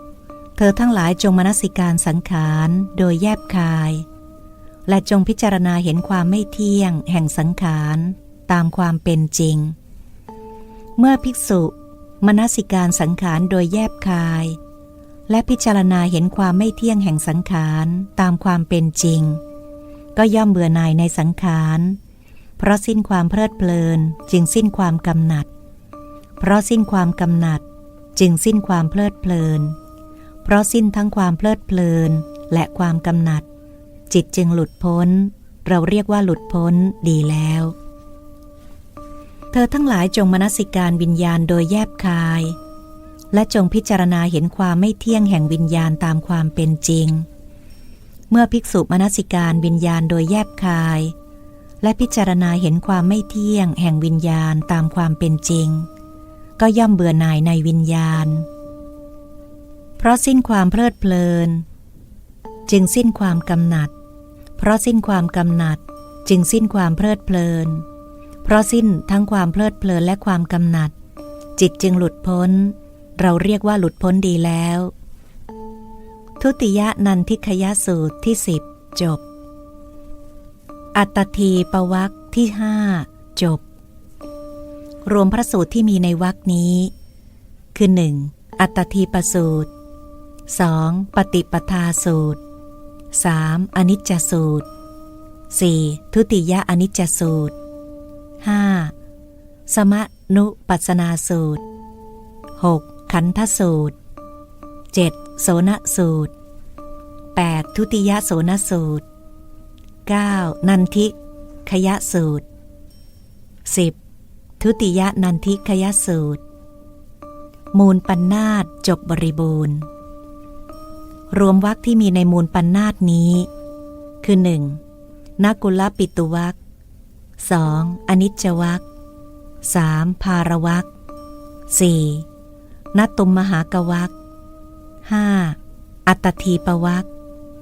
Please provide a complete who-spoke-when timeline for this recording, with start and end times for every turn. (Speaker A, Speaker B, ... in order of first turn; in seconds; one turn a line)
Speaker A: 0.6-4.0
Speaker A: 4.9-9.7
Speaker A: 11.0-14.6
Speaker A: 15.3-19.4
Speaker A: 20.1-22.0
Speaker A: 22.6-25.5
Speaker A: 26.4-27.6
Speaker A: 28.1-29.8
Speaker A: 30.4-33.5
Speaker A: 34.1-37.7
Speaker A: 39.5-42.5
Speaker A: 43.3-47.2
Speaker A: 48.3-51.1
Speaker A: 51.8-55.9
Speaker A: 56.6-58.5
Speaker A: 60.0-61.6
Speaker A: 62.7-63.9
Speaker A: 64.6-67.8
Speaker A: 68.4-70.9
Speaker A: 71.6-74.9
Speaker A: 76.4-79.2
Speaker A: 80.9-83.6
Speaker A: 85.0-86.9
Speaker A: 87.7-89.7
Speaker A: 90.5-92.4
Speaker A: 93.1-94.7
Speaker A: 95.5-97.5
Speaker A: 98.4-98.9
Speaker A: 99.7-101.6
Speaker A: 102.6-104.0
Speaker A: 104.9-106.3
Speaker A: 107.3-109.0
Speaker A: 110.0-111.1
Speaker A: 111.7-112.4
Speaker A: 113.6-114.0
Speaker A: 114.6-116.4
Speaker A: 117.7-119.9
Speaker A: 121.3-123.5
Speaker A: 124.2-124.8
Speaker A: 125.4-126.5
Speaker A: 127.4-128.8
Speaker A: 129.6-130.9
Speaker A: 131.7-132.2
Speaker A: 132.9-134.2
Speaker A: 135.0-137.1